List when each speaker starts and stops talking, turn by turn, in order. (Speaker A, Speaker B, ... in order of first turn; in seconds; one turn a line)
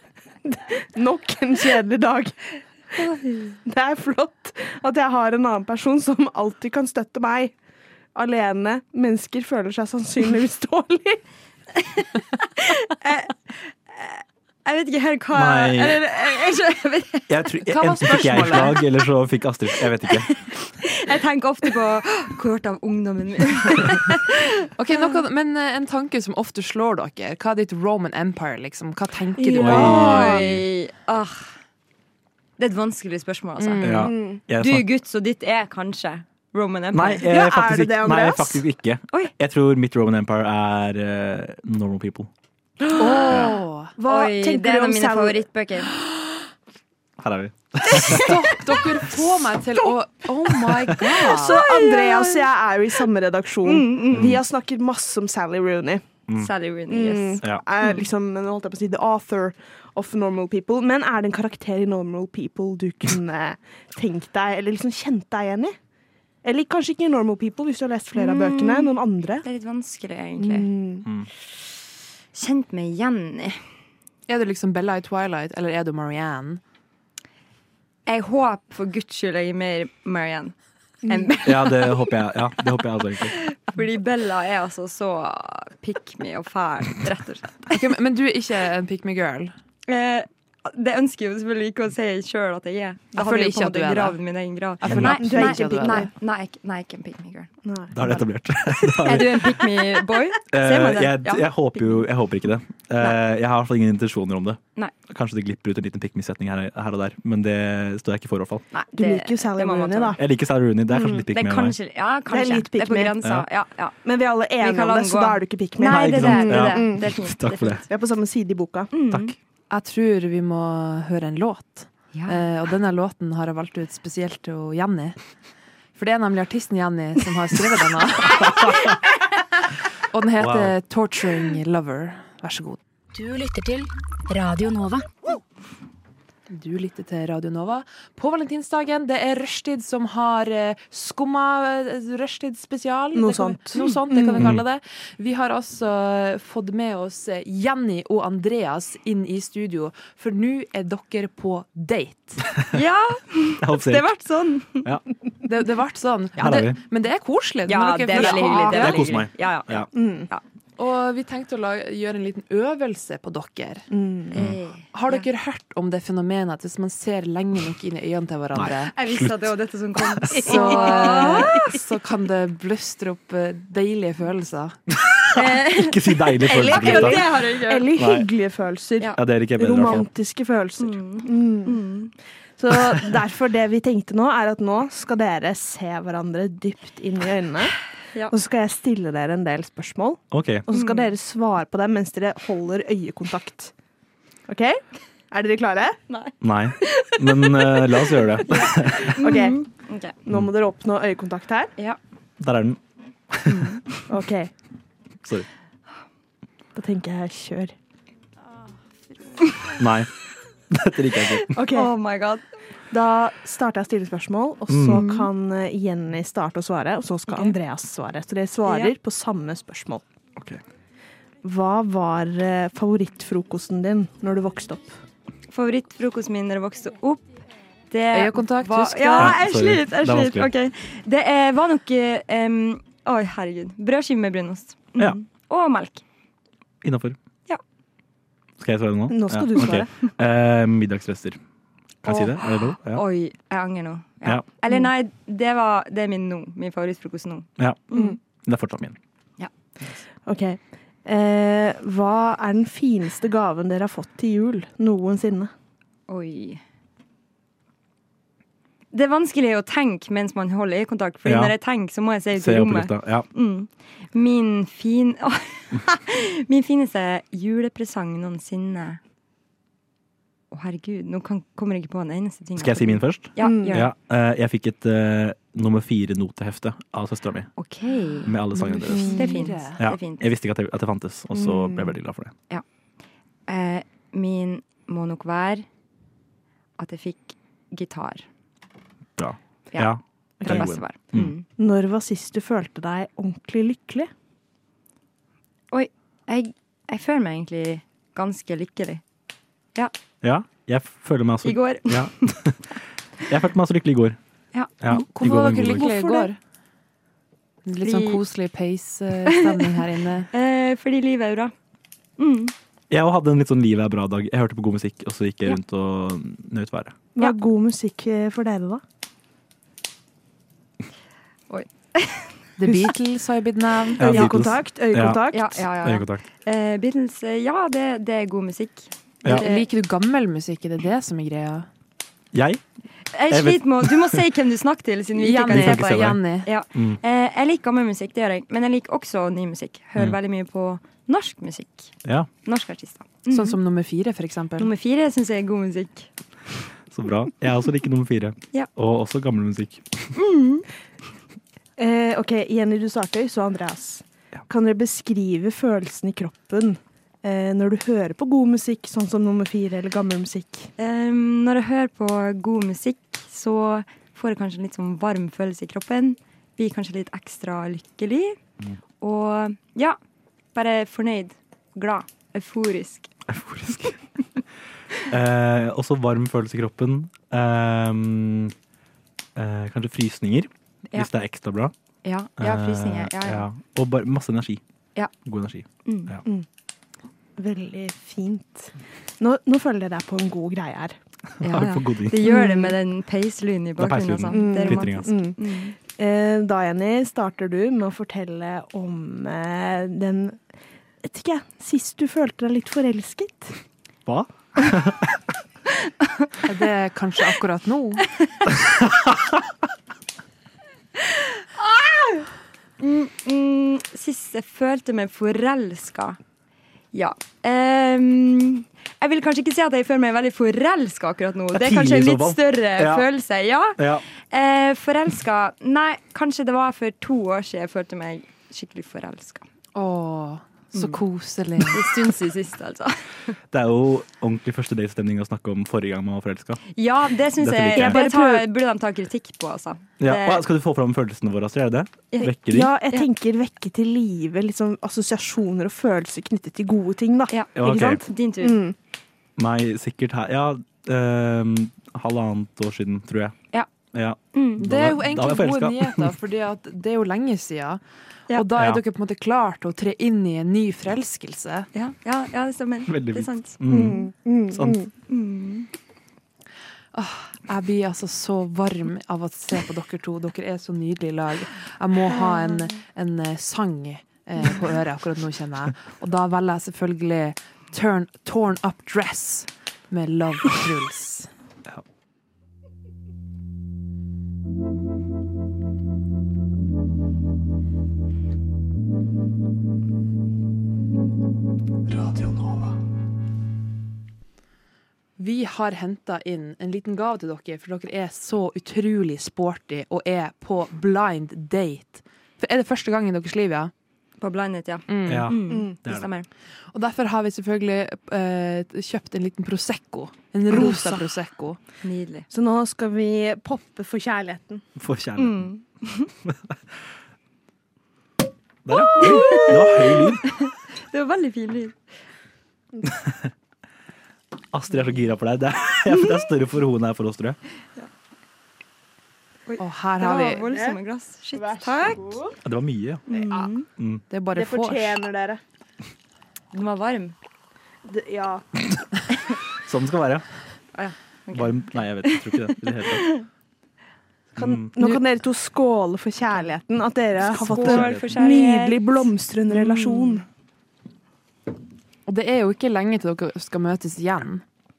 Speaker A: 0.4-2.4
Speaker B: 3.0-3.6
Speaker A: 3.6-7.5
Speaker A: 8.1-11.2
Speaker B: 11.8-17.4
Speaker C: 15.3-16.0
Speaker C: 17.3-20.3
Speaker D: 17.7-18.8
Speaker B: 20.0-24.5
Speaker D: 24.8-30.2
Speaker B: 29.4-31.5
Speaker C: 29.6-30.7
Speaker A: 29.6-30.4
Speaker B: 32.6-37.3
Speaker D: 33.6-34.1
Speaker C: 33.8-34.9
Speaker A: 34.0-34.4
Speaker C: 36.9-42.3
Speaker A: 37.2-38.6
Speaker A: 42.8-45.4
Speaker D: 43.0-43.9
Speaker C: 43.3-43.5
Speaker B: 44.1-45.9
Speaker C: 47.2-48.4
Speaker D: 48.1-51.6
Speaker A: 51.2-56.0
Speaker B: 51.5-52.4
Speaker B: 53.6-54.4
Speaker C: 54.1-54.4
Speaker B: 56.4-58.0
Speaker A: 56.9-65.7
Speaker A: 66.4-69.4
Speaker B: 68.1-68.9
Speaker B: 69.4-70.7
Speaker A: 70.4-71.0
Speaker B: 72.3-73.6
Speaker D: 74.3-76.6
Speaker B: 78.0-80.5
Speaker B: 81.0-82.2
Speaker A: 81.1-81.3
Speaker C: 81.4-83.4
Speaker B: 83.2-87.8
Speaker D: 87.7-89.5
Speaker B: 89.9-97.5
Speaker D: 93.2-94.2
Speaker D: 94.8-96.1
Speaker C: 94.9-95.2
Speaker A: 95.0-96.1
Speaker A: 97.6-98.2
Speaker C: 97.9-99.6
Speaker B: 99.0-102.0
Speaker C: 100.5-108.6
Speaker B: 108.7-110.2
Speaker A: 108.9-110.2
Speaker C: 110.2-111.8
Speaker A: 110.9-111.2
Speaker B: 111.3-114.0
Speaker A: 112.3-113.2
Speaker A: 114.0-117.0
Speaker B: 114.6-117.8
Speaker C: 115.8-117.8
Speaker A: 117.9-118.9
Speaker B: 118.9-119.3
Speaker C: 119.1-119.3
Speaker D: 119.7-125.2
Speaker B: 122.1-122.4
Speaker D: 126.0-128.7
Speaker C: 128.4-128.8
Speaker D: 130.1-132.8
Speaker C: 130.4-130.7
Speaker E: 133.1-135.1
Speaker D: 136.5-152.4
Speaker A: 143.1-144.5
Speaker C: 144.4-144.6
Speaker B: 152.7-154.9
Speaker C: 153.6-154.1
Speaker D: 155.4-159.1
Speaker C: 156.4-156.8
Speaker B: 157.7-160.4
Speaker C: 158.3-159.9
Speaker A: 159.9-160.3
Speaker D: 160.8-163.8
Speaker A: 163.9-164.4
Speaker B: 164.3-165.2
Speaker C: 164.3-164.6
Speaker D: 164.9-168.9
Speaker C: 168.5-170.4
Speaker B: 168.9-171.6
Speaker A: 170.3-171.6
Speaker D: 170.4-174.8
Speaker C: 174.9-177.4
Speaker B: 175.3-177.9
Speaker A: 176.4-181.8
Speaker C: 177.9-178.3
Speaker C: 179.2-180.1
Speaker B: 180.8-182.1
Speaker A: 182.6-187.8
Speaker A: 188.3-193.7
Speaker C: 190.3-190.7
Speaker B: 190.7-191.1
Speaker A: 194.5-196.0
Speaker B: 196.1-200.2
Speaker C: 196.4-199.2
Speaker A: 199.2-199.6
Speaker A: 200.2-201.7
Speaker C: 202.4-202.8
Speaker C: 203.3-203.8
Speaker B: 203.5-204.0
Speaker A: 204.1-204.5
Speaker A: 206.7-207.7
Speaker B: 209.4-209.7
Speaker C: 209.8-210.1
Speaker C: 210.7-211.5
Speaker B: 211.3-212.4
Speaker A: 211.5-211.9
Speaker A: 212.9-220.0
Speaker C: 214.7-215.0
Speaker B: 214.9-215.3
Speaker B: 218.7-218.9
Speaker C: 220.3-220.6
Speaker A: 221.4-225.0
Speaker B: 225.5-227.3
Speaker B: 227.9-236.0
Speaker D: 228.1-229.4
Speaker C: 229.2-230.5
Speaker C: 236.8-237.2
Speaker C: 238.6-241.4
Speaker A: 239.1-239.9
Speaker C: 242.0-243.0
Speaker B: 242.1-248.2
Speaker C: 247.6-247.8
Speaker C: 248.4-248.9
Speaker A: 250.2-255.5
Speaker B: 256.1-256.6
Speaker B: 258.9-269.0
Speaker C: 261.2-261.5
Speaker C: 262.3-263.3
Speaker B: 270.5-273.9
Speaker C: 272.6-277.5
Speaker A: 273.4-273.8
Speaker B: 277.6-278.3
Speaker C: 278.2-279.2
Speaker D: 278.5-279.8
Speaker B: 278.9-280.3
Speaker C: 279.8-282.3
Speaker A: 281.3-281.9
Speaker B: 283.5-285.6
Speaker B: 286.8-288.2
Speaker C: 289.2-291.3
Speaker B: 289.7-291.4
Speaker A: 290.4-290.8
Speaker A: 291.6-294.1
Speaker B: 295.7-299.0
Speaker C: 300.2-302.7
Speaker B: 301.4-302.3
Speaker C: 303.3-304.2
Speaker B: 304.5-305.1
Speaker C: 304.8-305.9
Speaker D: 304.9-306.4
Speaker B: 305.8-306.3
Speaker D: 307.6-310.3
Speaker B: 307.8-308.2
Speaker B: 309.2-309.8
Speaker B: 310.3-311.5
Speaker B: 312.2-312.5
Speaker C: 312.9-317.0
Speaker A: 317.1-318.8
Speaker B: 321.5-322.4
Speaker D: 322.6-324.3
Speaker C: 324.0-325.2
Speaker A: 324.0-325.6
Speaker B: 325.3-329.7
Speaker C: 325.8-326.2
Speaker D: 329.3-331.7
Speaker C: 332.3-332.6
Speaker B: 333.1-343.6
Speaker C: 333.3-334.2
Speaker D: 335.1-336.5
Speaker C: 335.5-336.2
Speaker C: 342.0-342.3
Speaker D: 343.3-344.7
Speaker B: 344.6-346.1
Speaker C: 346.9-350.1
Speaker B: 350.1-350.6
Speaker A: 351.8-360.7
Speaker B: 360.8-368.4
Speaker B: 369.0-370.0
Speaker B: 370.5-373.1
Speaker C: 373.3-374.0
Speaker C: 375.1-378.5
Speaker C: 379.4-381.7
Speaker B: 382.0-383.4
Speaker C: 382.4-384.6
Speaker C: 385.2-386.2
Speaker B: 385.8-386.1
Speaker A: 387.4-390.9
Speaker C: 391.4-392.3
Speaker B: 391.4-395.8
Speaker A: 392.2-392.7
Speaker C: 393.8-395.1
Speaker A: 394.3-395.4
Speaker A: 395.9-400.4
Speaker A: 401.0-403.6
Speaker C: 404.1-405.2
Speaker D: 406.4-408.1
Speaker B: 411.6-412.2
Speaker B: 412.8-416.2
Speaker B: 416.9-429.4
Speaker C: 421.5-423.1
Speaker C: 423.8-424.0
Speaker D: 429.7-431.9
Speaker B: 430.7-431.0
Speaker B: 431.6-433.3
Speaker C: 433.5-436.6
Speaker B: 436.7-440.4
Speaker C: 437.4-438.0
Speaker A: 437.9-438.3
Speaker C: 440.0-442.7
Speaker A: 442.2-448.7
Speaker B: 447.3-448.6
Speaker C: 447.6-448.0
Speaker C: 449.4-453.4
Speaker C: 453.9-456.1
Speaker B: 454.3-454.6
Speaker D: 454.6-457.8
Speaker D: 458.3-461.7
Speaker C: 458.5-458.8
Speaker B: 461.7-463.6
Speaker C: 462.9-464.9
Speaker A: 463.7-464.9
Speaker B: 465.1-465.7
Speaker D: 466.9-481.3
Speaker D: 495.2-503.7
Speaker B: 504.2-506.3
Speaker D: 504.9-505.3
Speaker C: 505.1-506.1
Speaker A: 505.5-505.8
Speaker D: 506.7-511.6
Speaker A: 510.5-511.0
Speaker B: 511.8-512.2
Speaker A: 512.3-514.6
Speaker C: 514.8-515.5
Speaker B: 515.2-516.1
Speaker C: 516.2-516.5
Speaker C: 518.6-520.3
Speaker B: 518.9-521.8
Speaker A: 519.1-519.6
Speaker C: 522.9-523.3
Speaker C: 524.5-527.4
Speaker B: 529.5-532.2
Speaker D: 529.6-530.5
Speaker A: 530.5-530.8
Speaker A: 531.3-532.4
Speaker C: 532.4-533.0
Speaker B: 533.1-533.7
Speaker A: 533.1-533.5
Speaker C: 533.8-534.0
Speaker D: 534.1-535.0
Speaker A: 534.3-535.4
Speaker B: 536.5-537.1
Speaker A: 537.9-538.5
Speaker C: 539.6-540.2
Speaker B: 540.7-543.2
Speaker C: 541.3-543.1
Speaker C: 544.3-544.7
Speaker A: 544.4-550.2
Speaker B: 547.2-550.2
Speaker C: 547.5-548.1
Speaker D: 552.1-554.4